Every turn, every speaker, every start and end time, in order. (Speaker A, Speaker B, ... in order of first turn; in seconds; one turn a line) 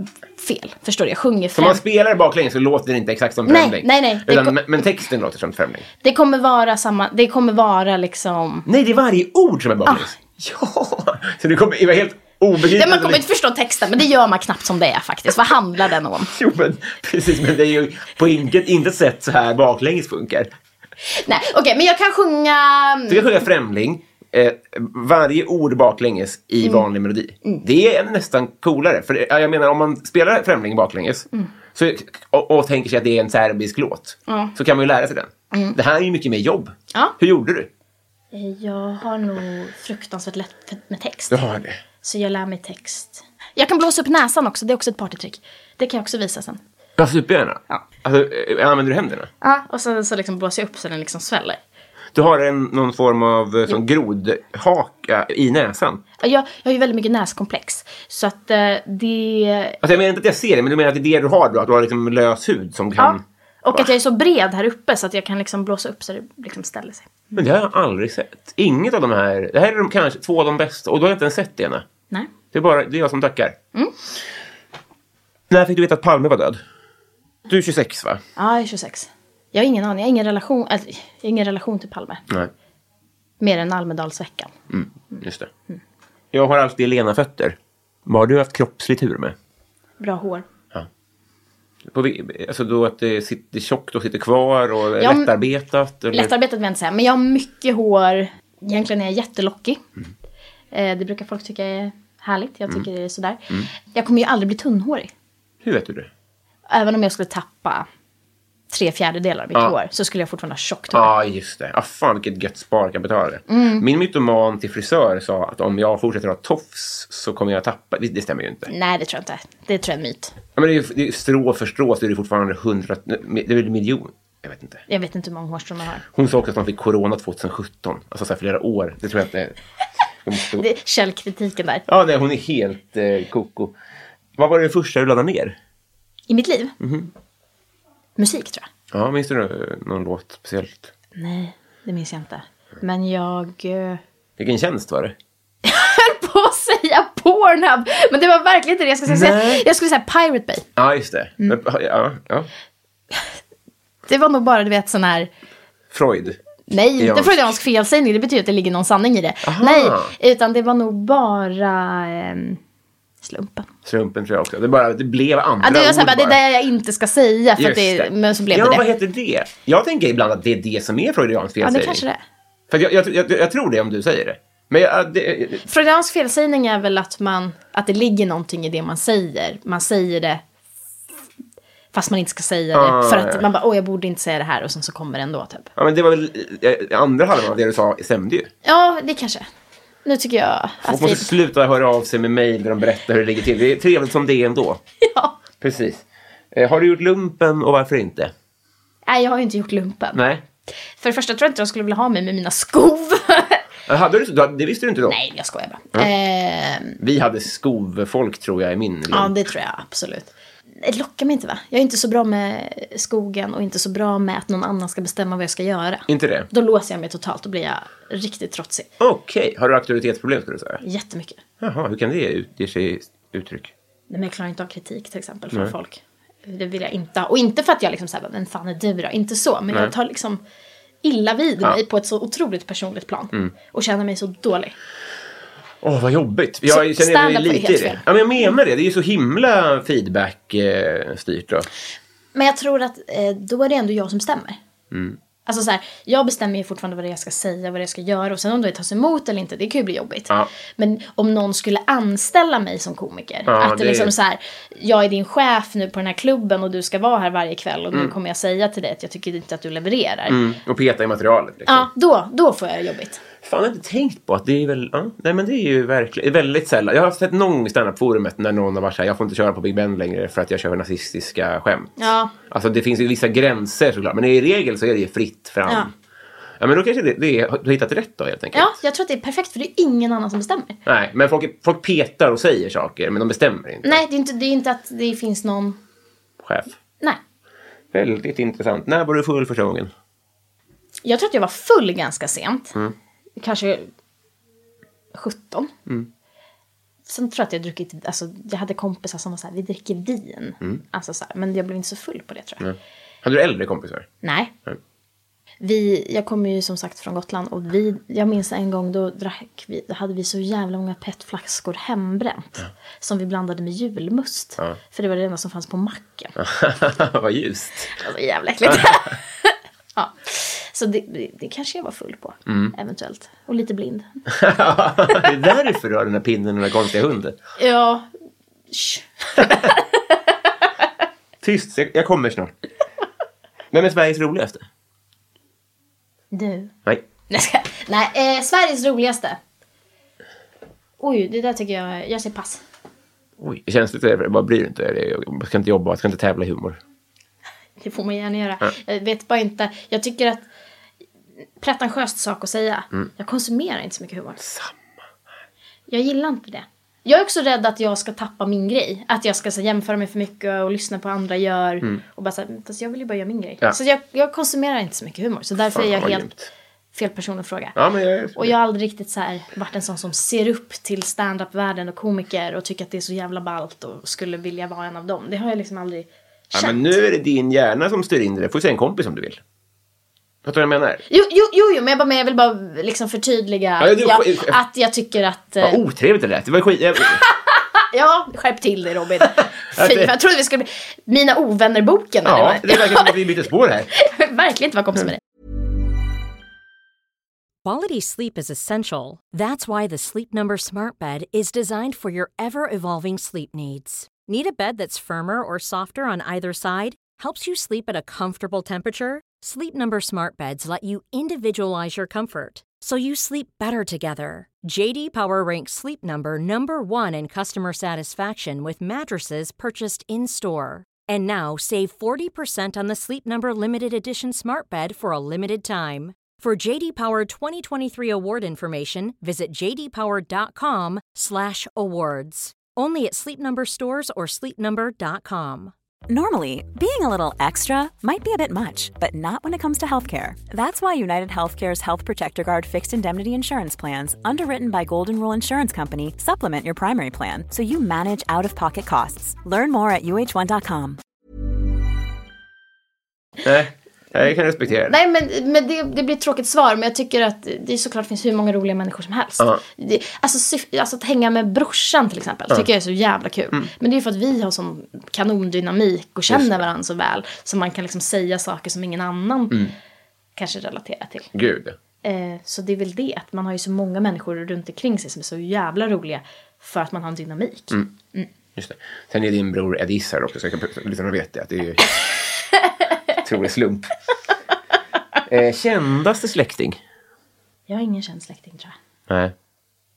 Speaker A: 0.4-1.8
Speaker B: 1.6-5.9
Speaker A: 3.5-4.6
Speaker A: 6.0-8.7
Speaker B: 8.7-13.2
Speaker A: 12.6-16.3
Speaker B: 16.2-20.5
Speaker A: 21.1-23.4
Speaker B: 23.1-37.7
Speaker A: 34.3-34.5
Speaker A: 35.5-35.8
Speaker A: 38.3-41.5
Speaker B: 41.3-41.8
Speaker A: 42.0-46.6
Speaker B: 47.0-49.3
Speaker A: 49.4-51.6
Speaker B: 52.1-56.0
Speaker A: 56.2-59.8
Speaker B: 59.8-63.2
Speaker A: 63.0-67.2
Speaker B: 67.3-71.8
Speaker B: 72.5-73.6
Speaker B: 75.5-76.6
Speaker B: 77.5-78.2
Speaker A: 78.4-82.2
Speaker A: 83.4-84.5
Speaker B: 84.7-85.5
Speaker A: 85.1-85.8
Speaker B: 86.3-89.3
Speaker A: 90.0-90.5
Speaker B: 91.9-96.3
Speaker A: 95.0-95.3
Speaker A: 96.1-99.8
Speaker A: 100.7-105.1
Speaker B: 105.6-106.1
Speaker A: 106.7-107.9
Speaker A: 108.7-111.1
Speaker B: 110.9-118.7
Speaker A: 113.5-113.8
Speaker A: 118.7-120.3
Speaker B: 120.6-124.8
Speaker A: 124.9-126.0
Speaker B: 126.1-129.6
Speaker B: 130.2-130.7
Speaker A: 130.6-131.8
Speaker B: 131.9-133.8
Speaker B: 134.4-135.6
Speaker A: 136.3-136.8
Speaker B: 136.8-137.1
Speaker A: 138.2-138.7
Speaker B: 138.9-140.9
Speaker A: 141.2-144.0
Speaker B: 144.4-145.2
Speaker A: 145.6-150.7
Speaker B: 149.1-149.7
Speaker B: 150.8-152.5
Speaker A: 154.1-155.3
Speaker B: 155.9-156.4
Speaker A: 156.7-162.6
Speaker B: 157.0-157.5
Speaker B: 159.4-160.1
Speaker A: 163.2-163.7
Speaker B: 163.8-166.4
Speaker A: 165.6-168.9
Speaker B: 167.6-172.0
Speaker A: 171.6-172.2
Speaker B: 172.7-175.7
Speaker A: 175.6-180.4
Speaker A: 181.9-185.7
Speaker B: 182.7-183.4
Speaker B: 185.8-188.5
Speaker A: 188.6-189.5
Speaker A: 190.1-191.3
Speaker B: 190.8-194.8
Speaker A: 195.0-195.4
Speaker B: 195.6-198.3
Speaker A: 199.1-200.2
Speaker B: 200.1-200.4
Speaker A: 201.0-203.6
Speaker B: 203.9-205.2
Speaker A: 205.1-207.0
Speaker B: 207.0-209.3
Speaker A: 209.1-218.9
Speaker B: 216.1-216.5
Speaker B: 219.0-220.8
Speaker A: 220.8-221.4
Speaker B: 221.6-223.7
Speaker A: 224.1-230.4
Speaker A: 231.0-234.8
Speaker B: 235.8-241.7
Speaker A: 236.7-238.1
Speaker A: 242.3-244.6
Speaker B: 244.9-245.2
Speaker A: 245.5-260.4
Speaker B: 253.5-254.1
Speaker B: 260.3-261.9
Speaker A: 261.7-263.2
Speaker B: 263.4-275.9
Speaker A: 272.0-272.3
Speaker B: 276.6-278.7
Speaker A: 278.5-280.8
Speaker B: 280.9-284.0
Speaker A: 283.8-285.8
Speaker B: 286.4-286.8
Speaker B: 287.9-289.9
Speaker A: 291.1-292.8
Speaker A: 293.4-293.9
Speaker A: 295.1-295.7
Speaker A: 297.1-302.6
Speaker B: 302.6-304.1
Speaker A: 304.2-304.5
Speaker A: 305.6-316.4
Speaker B: 316.4-317.9
Speaker A: 317.9-324.2
Speaker B: 318.6-319.0
Speaker B: 322.5-322.7
Speaker B: 324.3-327.4
Speaker A: 327.6-328.1
Speaker A: 328.7-330.7
Speaker B: 331.4-332.5
Speaker B: 333.7-334.6
Speaker A: 336.3-336.7
Speaker A: 337.3-339.4
Speaker A: 341.0-342.6
Speaker B: 343.4-346.8
Speaker A: 347.8-350.5
Speaker A: 351.6-354.4
Speaker B: 354.4-354.9
Speaker A: 355.9-366.3
Speaker B: 365.7-366.5
Speaker A: 366.9-367.8
Speaker B: 367.8-368.6
Speaker A: 368.4-377.0
Speaker B: 376.5-379.4
Speaker B: 380.4-381.0
Speaker A: 381.1-385.8
Speaker B: 383.8-384.6
Speaker B: 385.6-387.2
Speaker A: 387.2-393.2
Speaker B: 389.2-390.1
Speaker B: 392.2-393.9
Speaker A: 393.9-395.2
Speaker C: 397.6-435.7
Speaker D: 436.1-451.0
Speaker B: 453.4-454.9
Speaker A: 454.9-469.7
Speaker B: 466.3-466.6
Speaker A: 470.4-471.3
Speaker B: 471.3-471.8
Speaker A: 472.0-478.3
Speaker B: 478.6-481.8
Speaker B: 483.2-483.9
Speaker B: 485.3-486.8
Speaker A: 487.7-488.8
Speaker B: 489.1-489.3